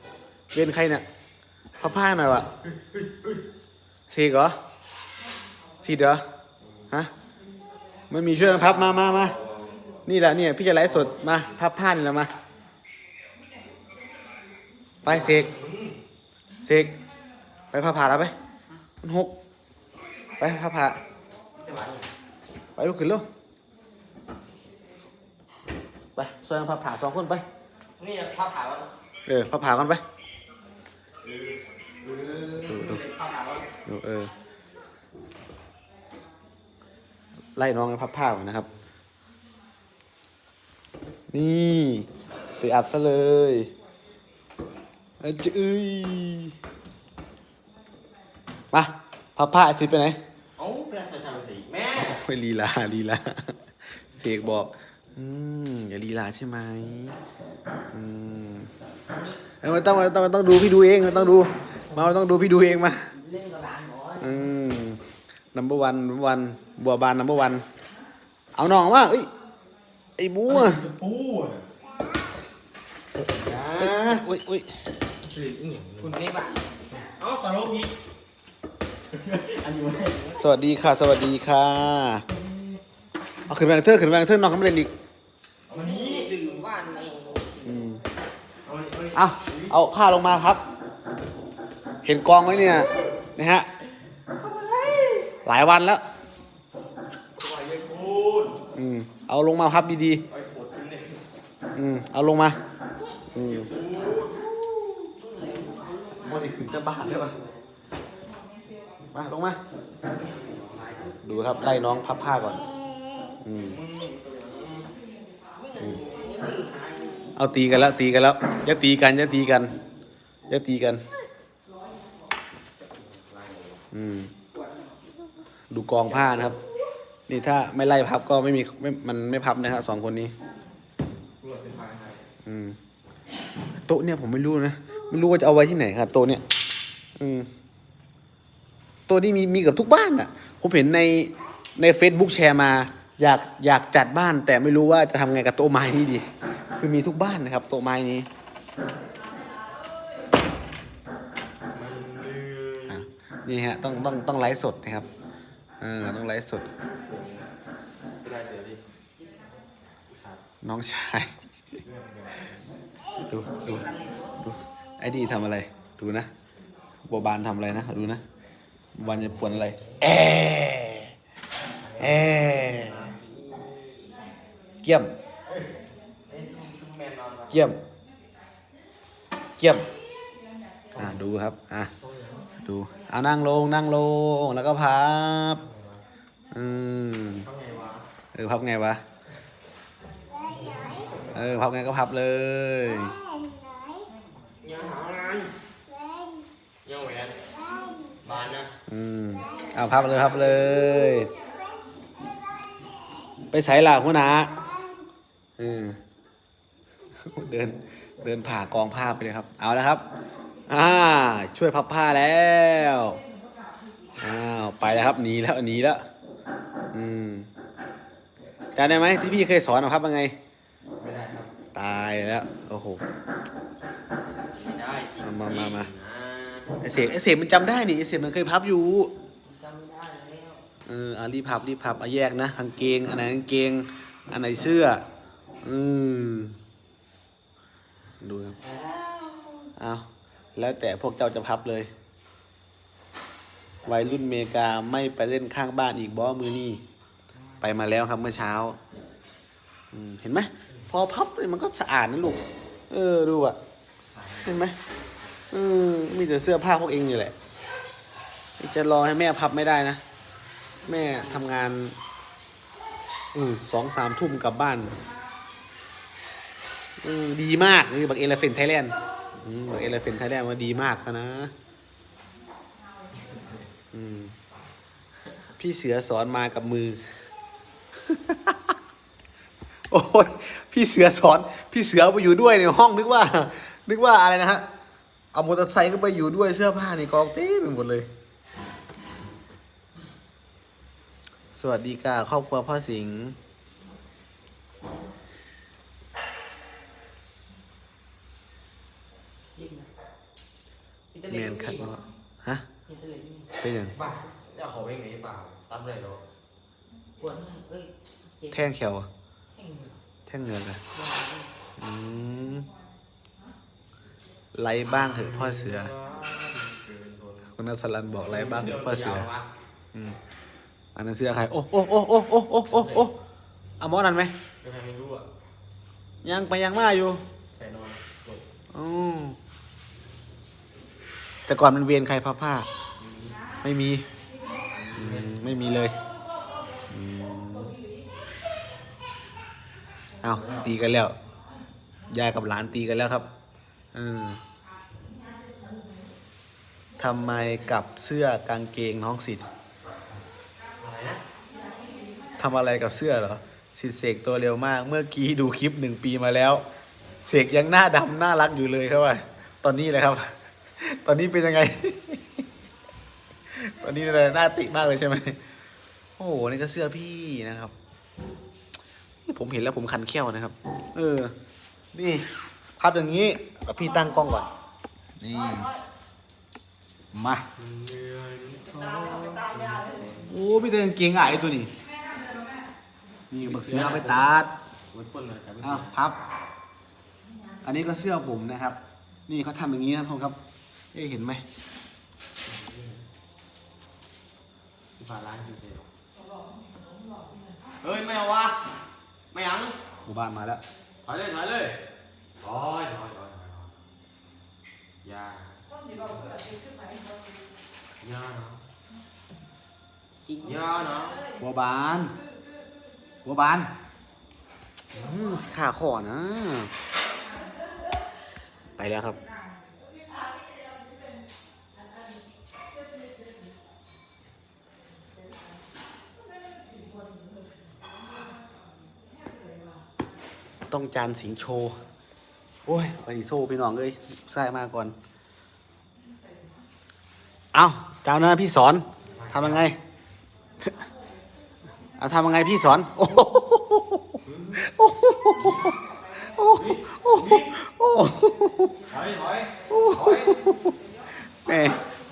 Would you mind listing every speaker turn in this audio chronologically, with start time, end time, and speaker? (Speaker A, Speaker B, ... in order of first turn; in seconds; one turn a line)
Speaker A: 0.5-1.0
Speaker A: 1.8-2.5
Speaker B: 2.8-3.4
Speaker A: 4.1-4.5
Speaker A: 5.8-6.2
Speaker A: 8.1-9.3
Speaker B: 8.3-9.8
Speaker A: 10.1-12.3
Speaker B: 10.8-11.5
Speaker B: 15.0-16.0
Speaker A: 15.0-15.5
Speaker A: 16.6-16.9
Speaker A: 17.7-18.3
Speaker A: 19.0-19.3
Speaker A: 20.4-21.0
Speaker B: 21.6-22.1
Speaker A: 22.8-23.2
Speaker A: 26.1-27.4
Speaker B: 28.0-28.9
Speaker A: 29.2-30.0
Speaker B: 31.2-33.7
Speaker A: 32.6-33.0
Speaker A: 33.9-34.3
Speaker A: 37.5-38.7
Speaker A: 41.3-42.1
Speaker A: 42.6-43.7
Speaker A: 45.2-46.5
Speaker A: 48.7-50.2
Speaker B: 50.6-52.2
Speaker A: 52.0-57.2
Speaker A: 57.9-58.7
Speaker C: 59.1-59.4
Speaker A: 59.6-63.1
Speaker C: 63.1-64.5
Speaker A: 64.2-65.0
Speaker A: 65.5-67.6
Speaker A: 68.5-69.3
Speaker A: 70.2-70.8
Speaker B: 70.5-71.7
Speaker B: 73.2-74.2
Speaker A: 73.8-74.7
Speaker B: 75.2-76.2
Speaker C: 76.0-76.7
Speaker B: 76.9-77.9
Speaker B: 79.1-80.4
Speaker A: 80.4-82.2
Speaker A: 83.5-84.9
Speaker B: 85.7-86.4
Speaker C: 85.7-87.8
Speaker A: 87.6-88.0
Speaker B: 88.6-89.8
Speaker A: 89.1-90.6
Speaker A: 92.0-93.7
Speaker B: 92.4-93.1
Speaker B: 94.4-95.3
Speaker A: 95.4-96.0
Speaker B: 97.4-98.6
Speaker A: 98.7-100.2
Speaker B: 100.3-101.2
Speaker A: 101.7-102.6
Speaker A: 103.3-103.7
Speaker B: 103.4-104.5
Speaker C: 104.9-107.5
Speaker A: 106.2-107.3
Speaker A: 109.1-109.6
Speaker B: 110.1-111.2
Speaker A: 111.2-112.6
Speaker A: 113.4-113.8
Speaker B: 113.6-114.9
Speaker C: 115.6-117.3
Speaker B: 115.8-116.7
Speaker A: 117.4-119.7
Speaker A: 120.5-121.0
Speaker B: 123.0-123.7
Speaker A: 123.9-124.3
Speaker A: 125.7-126.6
Speaker B: 126.0-126.6
Speaker A: 127.3-130.3
Speaker B: 131.4-132.2
Speaker A: 132.4-132.8
Speaker A: 133.8-136.4
Speaker A: 137.2-137.5
Speaker A: 139.1-148.3
Speaker B: 151.7-153.0
Speaker A: 152.9-155.1
Speaker A: 155.8-156.6
Speaker B: 157.0-157.5
Speaker B: 158.2-158.8
Speaker C: 159.2-159.5
Speaker B: 160.1-160.4
Speaker A: 160.6-161.4
Speaker B: 161.8-162.6
Speaker A: 163.2-163.9
Speaker C: 163.4-164.2
Speaker A: 164.4-166.3
Speaker A: 167.1-168.2
Speaker A: 168.9-171.1
Speaker B: 169.0-170.0
Speaker B: 171.8-174.2
Speaker A: 172.0-173.1
Speaker A: 174.8-175.1
Speaker B: 175.5-177.6
Speaker A: 177.5-177.8
Speaker A: 179.6-179.8
Speaker B: 180.9-181.2
Speaker A: 180.9-181.9
Speaker B: 182.0-182.5
Speaker A: 182.6-185.6
Speaker B: 185.6-186.0
Speaker A: 186.5-187.5
Speaker B: 187.4-188.1
Speaker A: 188.3-189.0
Speaker B: 190.4-191.4
Speaker A: 191.3-193.2
Speaker B: 194.6-195.5
Speaker B: 196.8-197.4
Speaker B: 198.2-198.7
Speaker A: 198.9-201.3
Speaker A: 203.5-204.6
Speaker A: 205.6-206.0
Speaker A: 207.2-210.0
Speaker A: 210.7-213.2
Speaker A: 214.2-216.0
Speaker A: 216.9-217.5
Speaker A: 218.8-220.3
Speaker B: 221.0-221.5
Speaker A: 221.7-223.0
Speaker B: 224.5-226.9
Speaker A: 225.2-225.9
Speaker A: 226.8-229.1
Speaker C: 229.4-230.6
Speaker A: 230.8-235.0
Speaker A: 235.6-236.6
Speaker A: 238.2-238.6
Speaker C: 238.6-239.7
Speaker A: 239.8-241.9
Speaker A: 243.8-246.8
Speaker A: 247.6-248.8
Speaker A: 249.9-253.6
Speaker B: 254.1-254.6
Speaker A: 254.4-254.8
Speaker A: 255.5-257.3
Speaker A: 258.6-260.0
Speaker A: 260.8-262.0
Speaker A: 263.3-265.0
Speaker A: 267.0-271.5
Speaker A: 273.9-274.3
Speaker A: 275.6-277.0
Speaker A: 278.0-278.7
Speaker A: 279.9-284.6
Speaker A: 285.3-288.1
Speaker A: 291.6-293.4
Speaker C: 299.5-299.9
Speaker C: 301.1-302.0
Speaker A: 301.3-302.6
Speaker C: 302.9-303.5
Speaker A: 303.6-303.9
Speaker B: 303.9-306.2
Speaker C: 307.2-308.7
Speaker A: 308.5-309.1
Speaker C: 309.5-310.0
Speaker A: 310.3-310.8
Speaker C: 310.9-311.5
Speaker A: 311.8-312.7
Speaker A: 314.5-315.9
Speaker B: 314.9-317.5
Speaker A: 317.4-319.2
Speaker B: 318.2-319.5
Speaker A: 320.9-323.1
Speaker B: 322.7-323.1
Speaker A: 323.8-324.3
Speaker B: 324.6-325.3
Speaker A: 326.2-327.2
Speaker B: 327.5-328.4
Speaker A: 328.7-329.4
Speaker A: 331.5-332.7
Speaker B: 333.0-333.4
Speaker A: 333.6-334.0
Speaker B: 334.7-335.4
Speaker A: 334.9-335.9
Speaker A: 336.9-337.7
Speaker A: 340.2-341.1
Speaker A: 342.1-343.3
Speaker A: 343.9-344.4
Speaker A: 347.0-349.5
Speaker B: 350.8-351.2
Speaker A: 352.4-356.6
Speaker A: 357.2-362.3
Speaker A: 363.5-365.4
Speaker A: 366.2-367.7
Speaker A: 369.3-371.3
Speaker A: 371.9-372.2
Speaker A: 372.8-374.5
Speaker A: 375.2-375.7
Speaker A: 377.1-377.4
Speaker B: 377.6-380.3
Speaker A: 380.2-381.7
Speaker A: 383.3-384.5
Speaker B: 383.4-384.3
Speaker B: 384.9-386.0
Speaker A: 385.6-386.2
Speaker A: 387.6-390.4
Speaker A: 390.9-391.4
Speaker B: 392.4-393.0
Speaker B: 395.0-395.9
Speaker B: 397.8-398.6
Speaker B: 399.3-399.8
Speaker A: 400.0-400.6
Speaker B: 401.0-401.8
Speaker B: 402.4-403.7
Speaker B: 405.0-405.6
Speaker B: 408.0-408.6
Speaker C: 410.2-410.6
Speaker B: 410.4-411.2
Speaker A: 411.4-412.1
Speaker A: 413.2-413.7
Speaker A: 415.0-416.7
Speaker A: 418.8-419.2
Speaker A: 430.7-431.8
Speaker A: 432.6-434.9
Speaker A: 437.5-439.8
Speaker B: 439.1-439.7
Speaker A: 442.0-448.8
Speaker B: 444.2-444.6
Speaker B: 446.5-447.5
Speaker B: 448.9-450.4
Speaker A: 449.7-450.7
Speaker A: 451.4-451.8